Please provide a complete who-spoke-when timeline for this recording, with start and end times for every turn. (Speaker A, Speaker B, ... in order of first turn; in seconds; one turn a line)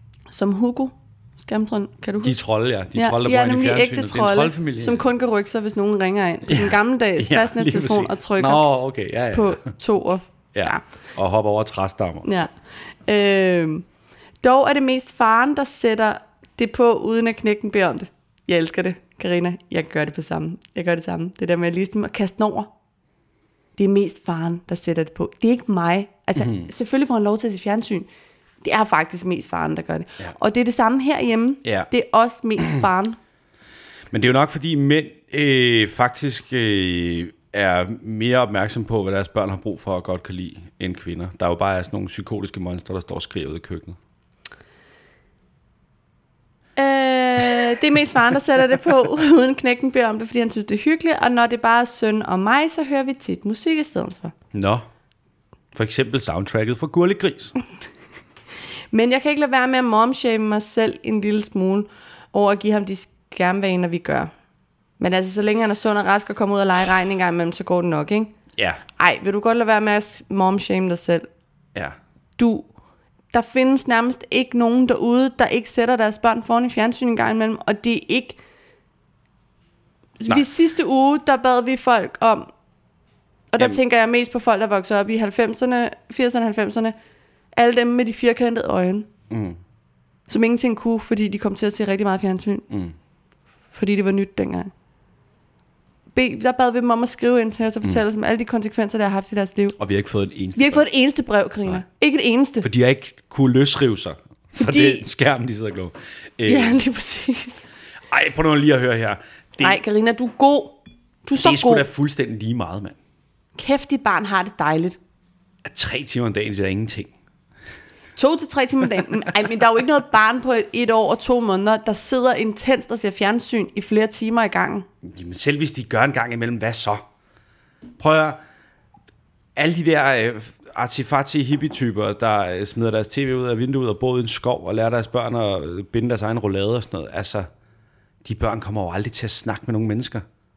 Speaker A: 0.3-2.4
Speaker B: 2.2-5.1
Speaker A: 3.0-8.7
Speaker B: 6.5-9.7
Speaker A: 9.3-10.8
Speaker B: 10.5-12.3
Speaker A: 12.2-12.5
Speaker A: 13.1-13.8
Speaker A: 14.4-22.7
Speaker A: 23.8-28.1
Speaker B: 26.4-26.7
Speaker A: 28.6-33.2
Speaker B: 34.1-44.0
Speaker A: 46.8-54.3
Speaker B: 54.5-54.9
Speaker B: 55.7-57.5
Speaker A: 58.9-64.3
Speaker A: 65.0-68.3
Speaker B: 68.6-68.8
Speaker A: 69.0-71.3
Speaker A: 72.4-72.7
Speaker A: 73.3-78.4
Speaker A: 80.2-82.5
Speaker A: 83.5-87.0
Speaker A: 87.5-89.1
Speaker B: 89.3-89.6
Speaker A: 90.3-92.7
Speaker B: 92.7-93.0
Speaker A: 93.7-94.7
Speaker A: 96.2-99.8
Speaker B: 99.8-100.8
Speaker A: 100.5-102.7
Speaker B: 102.6-106.8
Speaker A: 104.6-105.0
Speaker A: 106.5-107.7
Speaker B: 108.1-109.8
Speaker A: 109.6-111.8
Speaker B: 111.3-113.0
Speaker A: 113.6-115.0
Speaker B: 115.6-117.1
Speaker A: 118.2-124.9
Speaker B: 125.0-127.0
Speaker B: 128.0-128.4
Speaker B: 129.6-137.5
Speaker B: 138.2-140.2